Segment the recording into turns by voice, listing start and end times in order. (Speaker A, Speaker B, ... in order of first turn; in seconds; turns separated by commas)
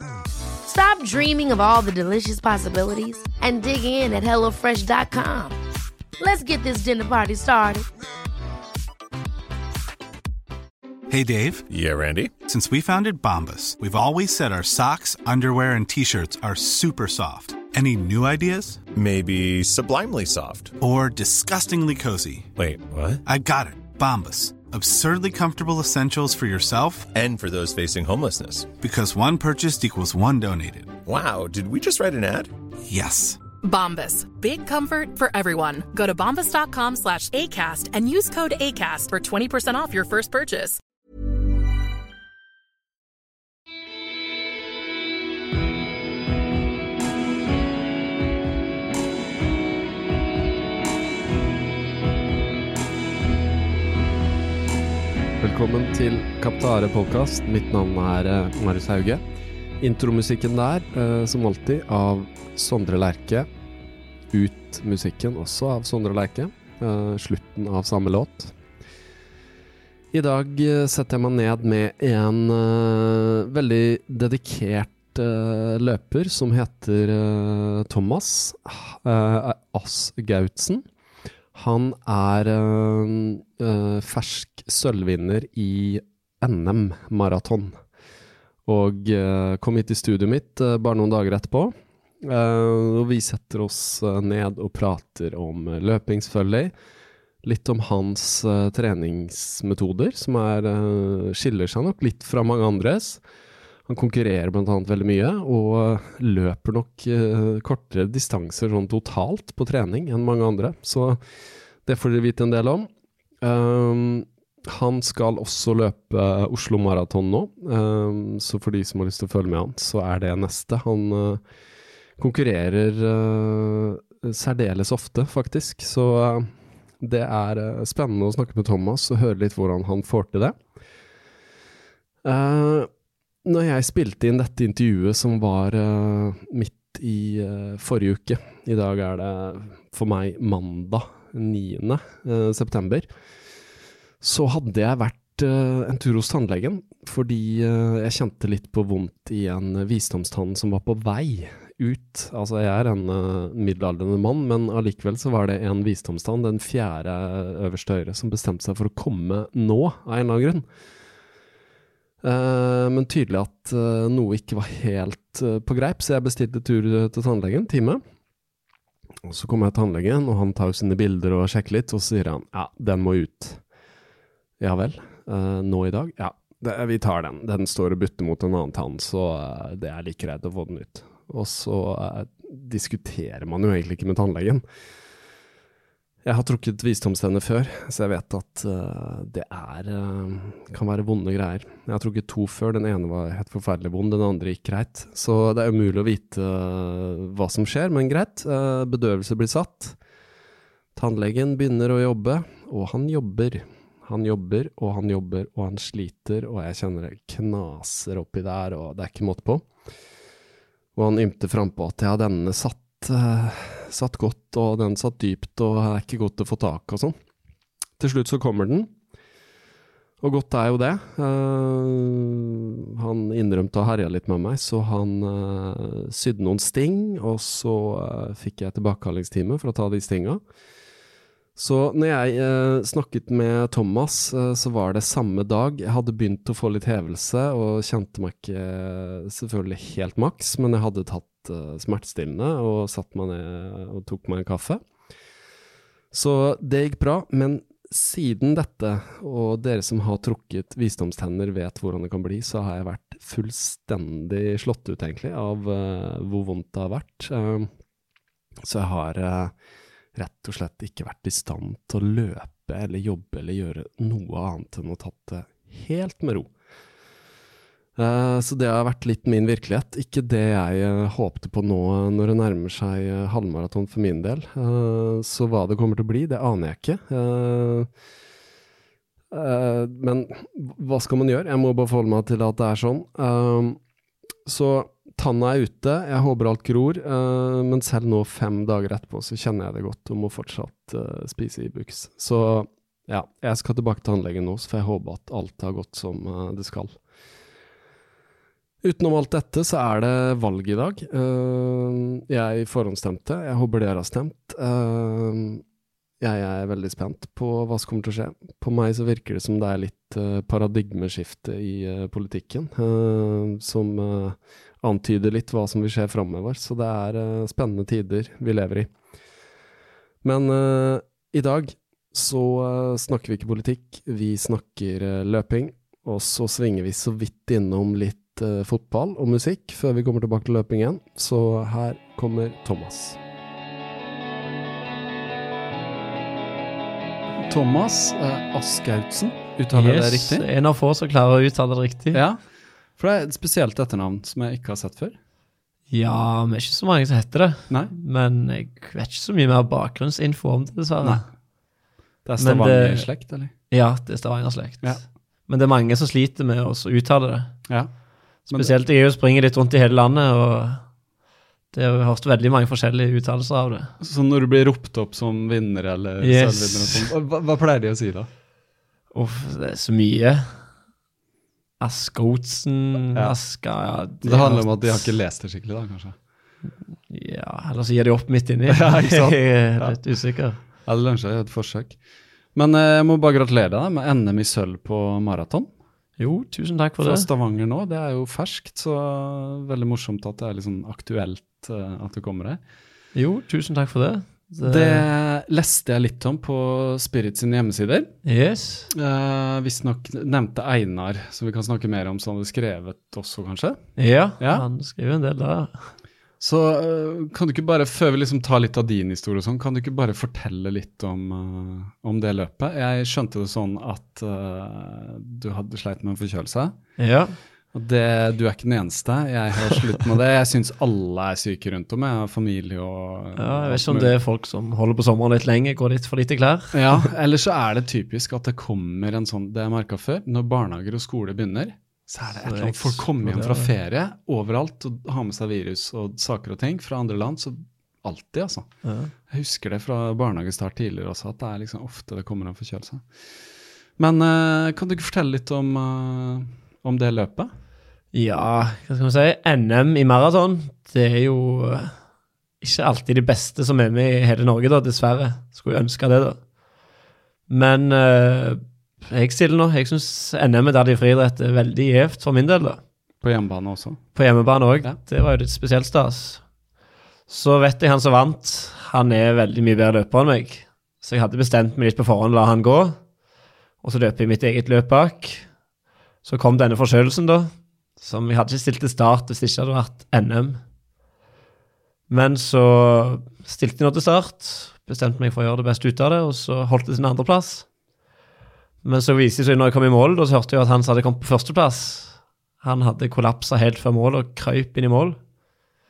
Speaker A: 0.7-5.5, Speaker A: 6.2-7.8, Speaker B: 11.1-11.7, Speaker C: 11.7-12.3, Speaker B: 12.4-18.8, Speaker C: 18.9-20.8, Speaker B: 20.8-22.5, Speaker C: 22.6-23.2, Speaker B: 23.2-27.1, Speaker C: 27.1-28.7, Speaker B: 28.8-31.0, Speaker C: 31.0-32.5, Speaker B: 32.9-33.4, Speaker D: 33.6-40.8, Speaker E: 55.4-59.2, Speaker E: 59.8-63.5, Speaker E: 64.3-68.5, Speaker E: 70.1-80.8, Speaker E: 81.5-87.8, Speaker E: 88.7-96.7, Speaker E: 97.4-103.2, Speaker E: 103.9-111.2, Speaker E: 111.8-112.9, Speaker E: 113.4-121.4, Speaker E: 122.2-126.5, Speaker E: 127.0-130.6, Speaker E: 132.2-132.9, Speaker E: 133.4-143.1, Speaker E: 144.2-160.7, Speaker E: 162.2-168.0, Speaker E: 169.2-173.6, Speaker E: 174.6-184.6, Speaker E: 186.2-200.0, Speaker E: 200.9-209.7, Speaker E: 210.9-217.1, Speaker E: 218.0-218.9, Speaker E: 220.2-230.4, Speaker E: 231.6-244.8, Speaker E: 246.1-257.7, Speaker E: 258.6-259.5, Speaker E: 260.1-266.5, Speaker E: 267.9-277.9, Speaker E: 279.3-283.8, Speaker E: 284.4-297.0, Speaker E: 298.8-305.6, Speaker E: 306.2-318.9, Speaker E: 320.2-333.2, Speaker F: 337.4-340.4, Speaker G: 339.7-342.2, Speaker F: 342.1-342.4, Speaker F: 343.0-345.2, Speaker G: 345.9-351.2, Speaker F: 352.2-353.5, Speaker G: 352.4-353.1, Speaker G: 353.7-354.9, Speaker G: 355.5-357.5, Speaker G: 358.5-360.8, Speaker G: 361.7-363.9, Speaker F: 364.0-368.3, Speaker G: 366.2-367.1, Speaker G: 369.1-370.6, Speaker G: 371.8-375.0, Speaker F: 374.2-376.1, Speaker G: 377.1-380.6, Speaker F: 378.7-380.0, Speaker F: 380.8-382.0, Speaker F: 382.5-385.7, Speaker G: 386.2-387.3, Speaker F: 387.0-392.6, Speaker G: 393.1-395.0, Speaker F: 394.6-398.1, Speaker G: 398.2-398.9, Speaker F: 398.9-403.8, Speaker G: 404.0-405.9, Speaker F: 404.4-404.6, Speaker F: 406.4-416.8, Speaker G: 417.0-417.3, Speaker F: 417.7-424.1, Speaker G: 423.4-426.7, Speaker F: 426.7-438.7, Speaker G: 432.3-433.7, Speaker G: 438.8-439.1, Speaker F: 439.3-443.0, Speaker F: 444.0-447.5, Speaker G: 448.1-451.9, Speaker G: 452.6-456.4, Speaker G: 457.5-462.8, Speaker F: 463.2-464.0, Speaker G: 464.1-466.4, Speaker G: 467.3-473.0, Speaker G: 473.8-475.4, Speaker G: 476.2-480.6, Speaker G: 482.1-487.6, Speaker G: 488.8-495.2